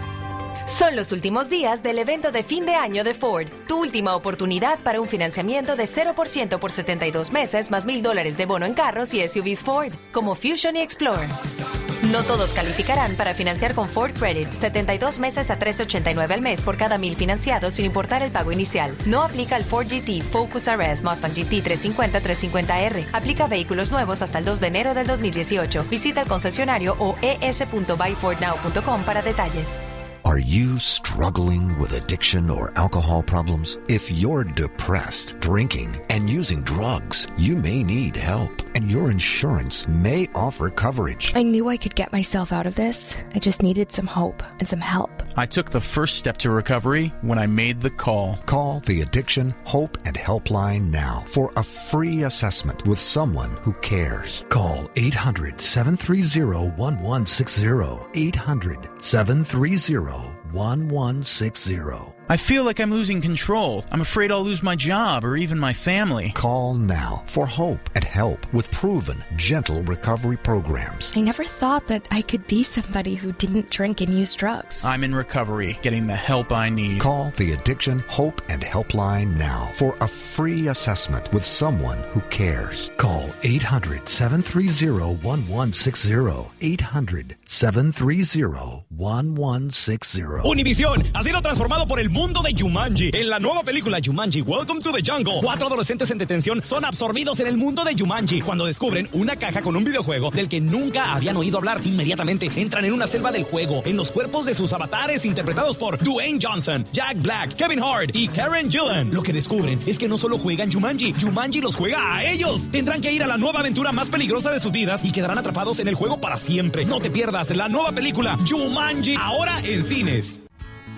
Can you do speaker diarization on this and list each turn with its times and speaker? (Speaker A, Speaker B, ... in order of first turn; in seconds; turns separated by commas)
Speaker A: 0.7-11.3, Speaker A: 12.0-29.8, Speaker B: 30.2-41.3, Speaker C: 41.3-45.3, Speaker D: 45.4-48.3, Speaker B: 48.4-62.1, Speaker D: 62.3-66.3, Speaker B: 66.3-71.1, Speaker C: 71.1-74.9, Speaker D: 75.0-76.9, Speaker B: 77.0-90.4, Speaker E: 90.4-120.4